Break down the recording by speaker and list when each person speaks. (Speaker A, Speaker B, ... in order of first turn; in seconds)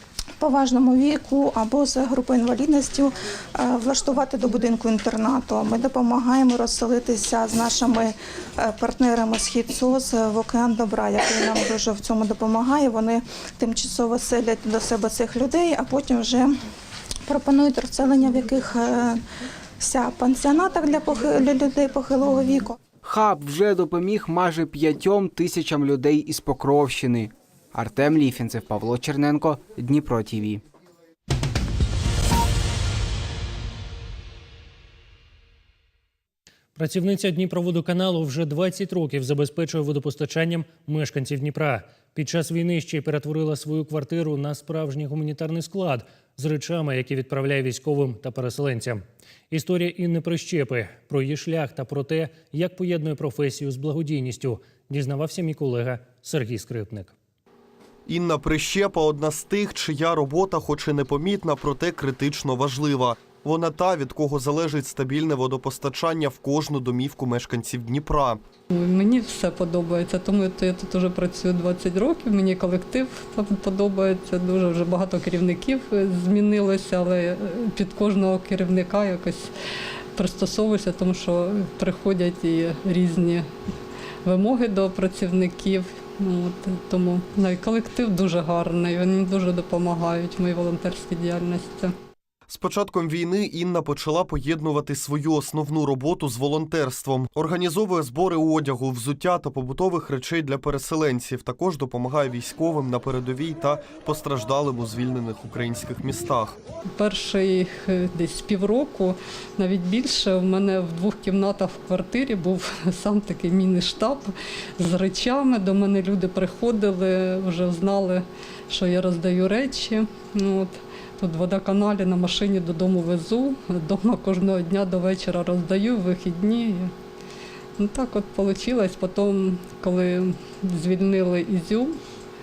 Speaker A: 0.4-16.5, 17.3-19.2, 19.8-22.8
Speaker B: 23.0-30.6
Speaker C: 36.8-57.1
Speaker D: 58.1-68.4, 92.5-106.6
Speaker E: 68.7-79.5, 80.1-83.5, 84.2-91.9, 106.9-126.9, 127.8-132.0